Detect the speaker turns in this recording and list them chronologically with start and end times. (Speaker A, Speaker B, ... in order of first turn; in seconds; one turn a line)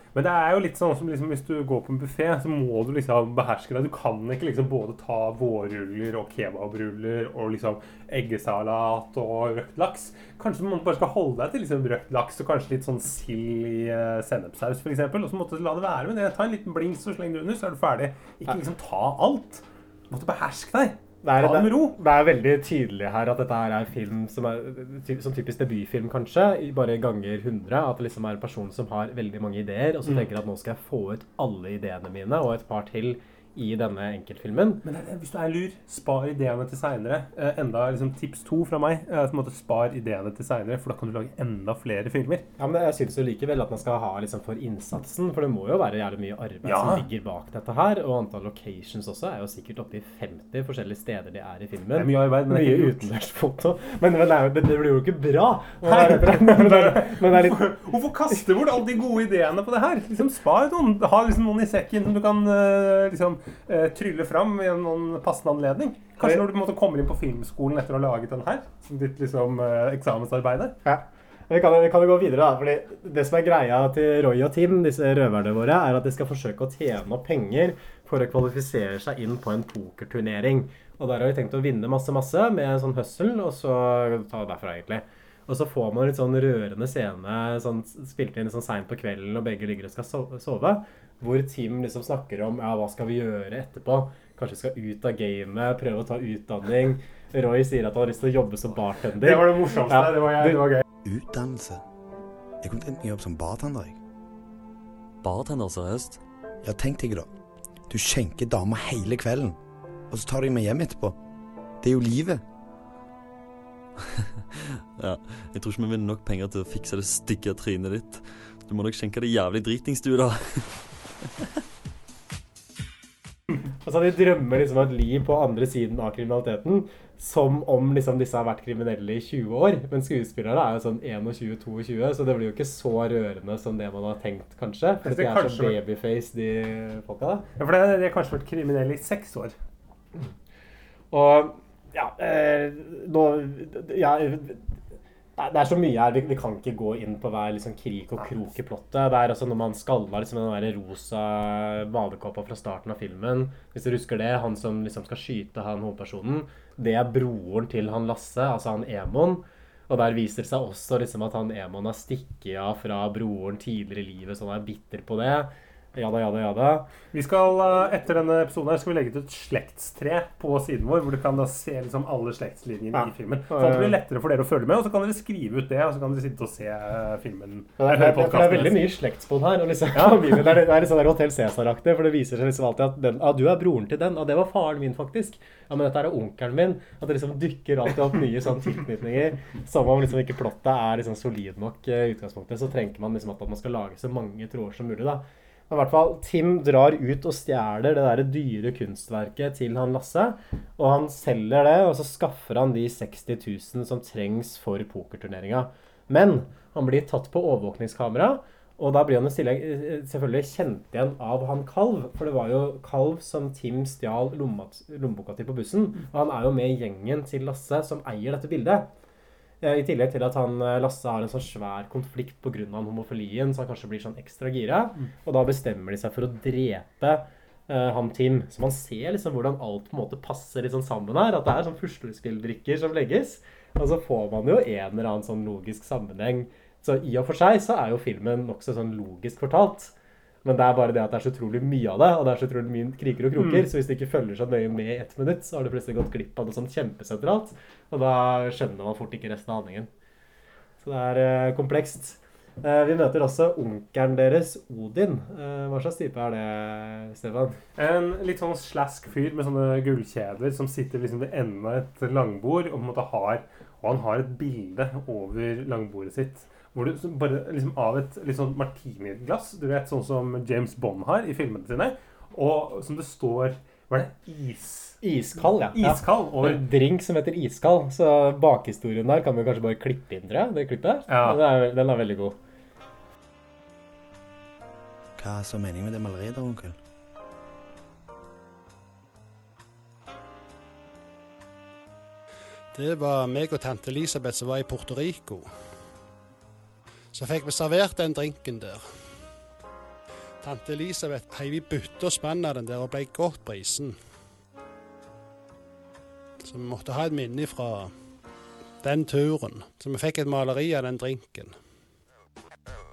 Speaker A: 0.1-22.0
Speaker B: 21.2-34.8
Speaker A: 30.0-30.3
Speaker A: 34.8-42.5
Speaker B: 42.6-57.7
Speaker A: 46.6-47.0
Speaker A: 51.9-53.1
Speaker A: 55.8-70.8
Speaker B: 66.2-66.5
Speaker B: 70.8-100.7
Speaker A: 99.2-100.8
Speaker C: 101.0-101.8
Speaker C: 102.6-104.0
Speaker D: 105.2-106.2
Speaker C: 106.6-107.3
Speaker C: 107.9-109.6
Speaker C: 110.1-111.2
Speaker C: 111.8-112.4
Speaker D: 115.0-120.8
Speaker B: 123.8-137.5
Speaker A: 135.0-135.8
Speaker A: 137.6-139.6
Speaker B: 141.1-144.7
Speaker B: 145.4-166.9
Speaker A: 167.1-178.9
Speaker B: 172.9-174.0
Speaker B: 177.8-218.9
Speaker A: 179.9-180.6
Speaker B: 219.6-239.9
Speaker B: 240.4-249.9
Speaker A: 243.3-243.6
Speaker B: 250.8-257.6
Speaker A: 257.8-275.0
Speaker B: 275.0-282.4
Speaker A: 275.7-276.6
Speaker A: 281.1-281.4
Speaker C: 285.2-286.7
Speaker E: 292.7-295.7
Speaker E: 297.1-299.3
Speaker E: 300.4-304.0
Speaker E: 306.4-307.9
Speaker E: 308.8-311.6